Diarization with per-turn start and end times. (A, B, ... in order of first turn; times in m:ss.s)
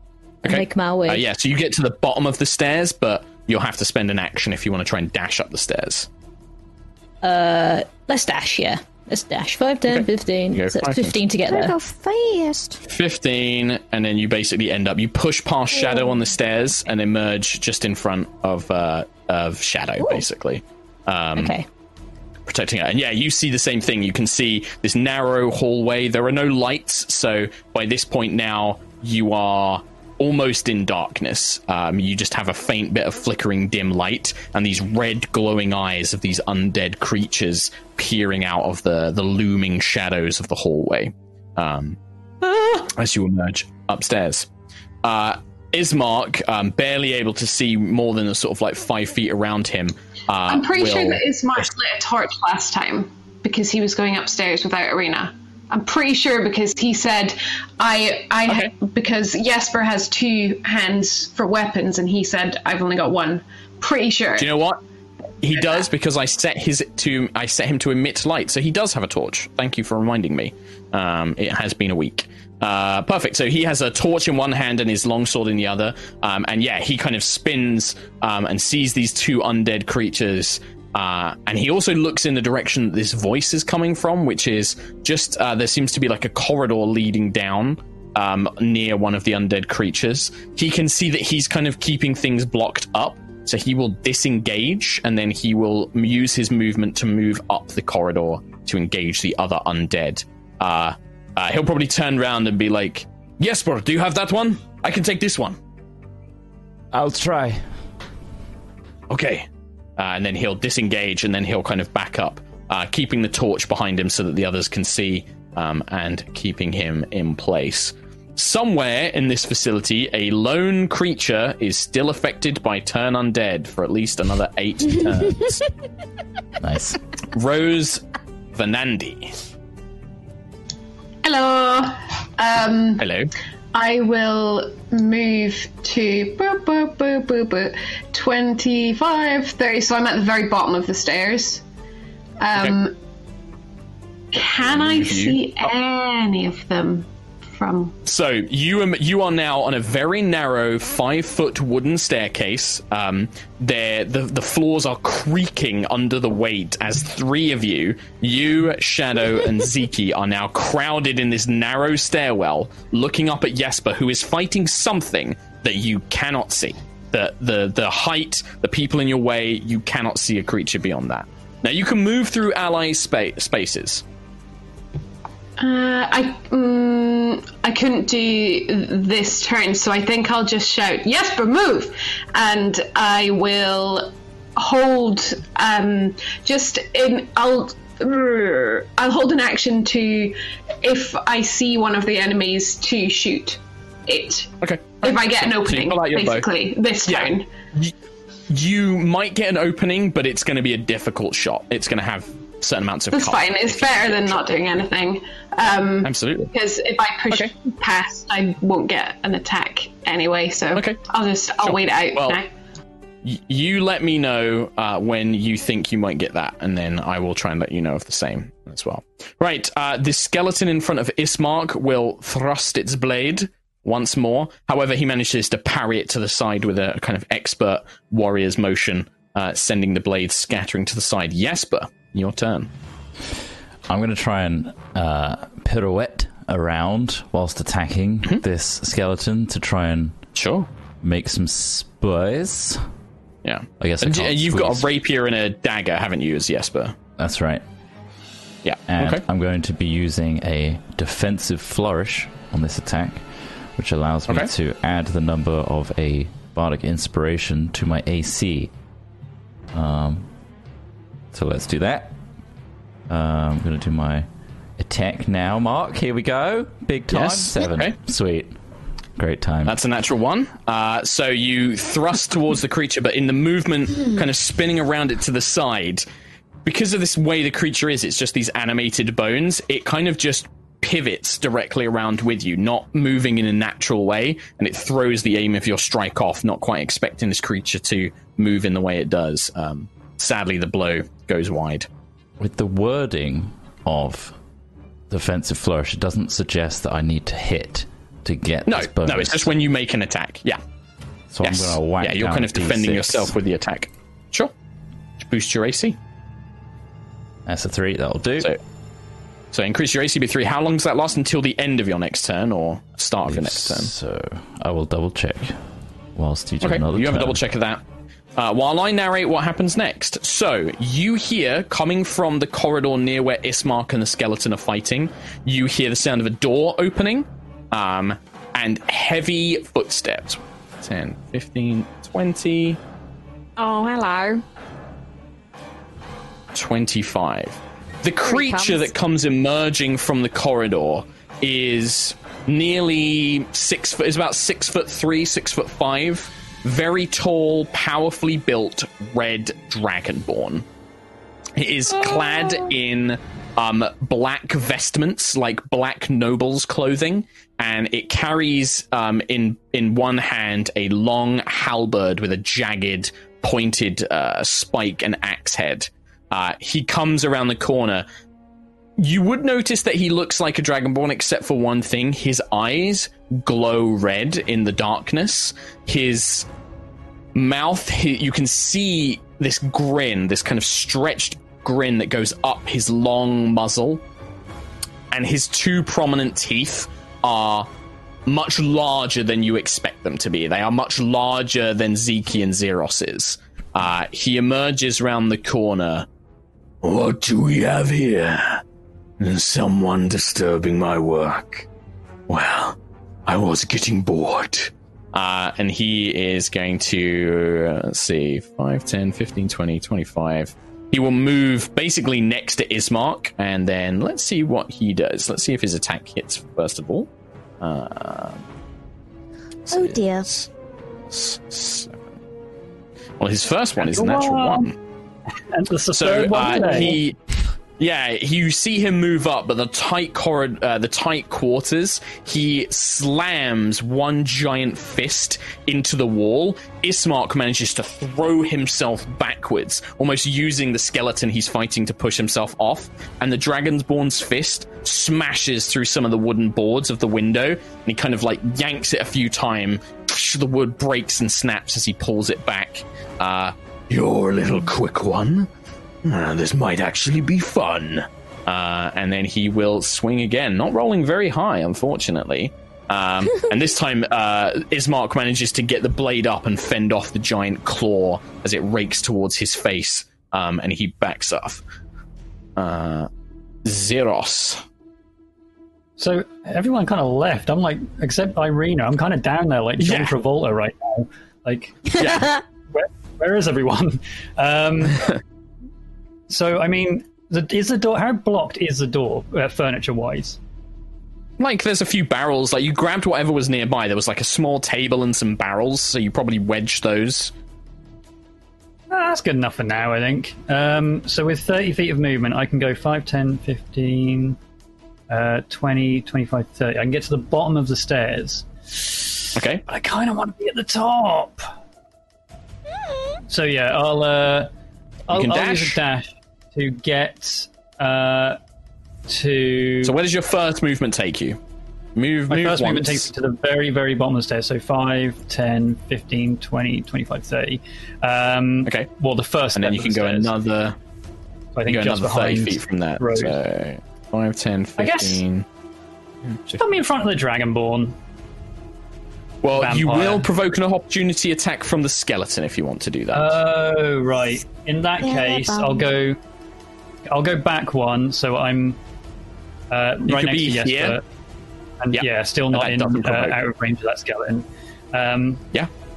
0:00.4-0:01.2 A
0:00.4-0:06.1 B
0:07.2-0:11.8 A
0:09.9-0:11.2 B
0:11.5-0:12.8 C
0:12.8-0:21.5 B
0:21.4-0:21.6 A
0:22.5-0:42.0 B
0:42.8-0:44.5 B
0:45.0-0:51.7 B
0:50.5-1:04.5 D
0:58.5-0:58.7 B
1:04.4-1:04.8 B
1:05.4-1:45.6 B
1:46.9-1:47.6 E
1:49.1-1:49.5 B
1:50.0-2:05.6 B
2:06.6-2:07.0 E
2:07.3-2:08.0 B
2:08.5-2:09.4 B
2:11.2-2:13.1 D
2:13.0-2:13.3 B
2:13.7-2:21.6 D
2:22.4-2:22.9 D
2:24.3-2:27.9 D
2:24.6-2:25.4 B
2:28.0-2:54.0 B
2:55.6-3:17.5 D
3:14.6-3:16.5 B
3:17.0-3:17.9 B
3:18.5-3:24.7 B
3:23.1-3:32.5 D
3:26.0-3:26.5 B
3:30.7-3:31.0 B
3:31.6-3:32.4 B
3:33.2-3:52.7 B
3:53.9-4:00.2 E
4:00.4-4:00.7 B
4:01.0-4:02.8 E
4:03.4-4:07.0 B
4:03.8-4:04.9 E
4:07.2-4:07.6 E
4:08.6-4:09.2 B
4:08.9-4:18.7 E
4:19.7-4:20.3 E
4:21.3-4:22.2 E
4:23.1-4:24.3 E
4:24.8-4:28.6 E
4:27.1-4:28.0 B
4:29.2-4:29.8 E
4:29.6-4:36.0 B
4:36.6-4:51.9 B
4:52.4-4:54.4 E
4:55.1-4:59.5 E
4:58.7-5:00.6 B
5:01.3-5:03.3 E
5:01.4-5:04.5 B
5:05.2-5:06.0 B
5:07.5-5:08.5 E
5:09.5-5:13.9 B
5:13.3-5:15.6 E
5:16.2-5:17.4 E
5:16.6-5:17.8 B
5:18.4-5:32.8 B
5:33.6-5:34.4 C
5:36.5-5:50.6 B
5:38.2-5:38.9 C
5:51.6-6:08.0 B
6:09.0-6:16.5 B
6:17.4-6:24.0 B
6:25.1-6:27.7 B
6:28.3-6:36.1 B
6:36.8-6:38.6 B
6:39.2-6:41.7 B
6:42.3-6:57.1 B
6:57.6-6:58.4 B
6:59.7-7:00.5 B
6:59.7-7:00.3 C
7:01.1-7:02.2 B
7:03.2-7:04.8 B
7:03.8-7:04.7 F
7:05.5-7:07.0 F
7:05.9-7:07.2 B
7:07.8-7:35.5 B
7:36.0-7:51.6 B
7:52.6-7:53.1 B
7:53.6-7:54.6 B
7:56.0-8:05.1 F
7:59.8-8:00.1 B
8:01.9-8:02.3 B
8:06.3-8:10.4 F
8:11.4-8:17.3 B
8:18.9-8:24.4 F
8:25.1-8:31.5 F
8:29.4-8:29.6 B
8:33.3-8:34.5 F
8:35.1-8:38.4 F
8:35.1-8:35.8 B
8:39.1-8:39.9 F
8:39.8-8:41.4 B
8:42.0-8:43.1 B
8:42.3-8:50.3 F
8:48.6-8:48.9 B
8:49.6-8:50.8 B
8:51.6-8:53.4 F
8:51.6-8:55.4 B
8:54.8-8:55.2 F
8:56.2-8:56.6 B
8:56.5-8:58.0 F
8:59.4-9:03.4 B
8:59.5-9:00.3 F
9:03.1-9:06.2 F
9:05.0-9:05.9 C
9:07.1-9:08.8 F
9:09.7-9:11.0 F
9:10.1-9:11.0 B
9:11.8-9:15.4 F
9:11.9-9:13.4 B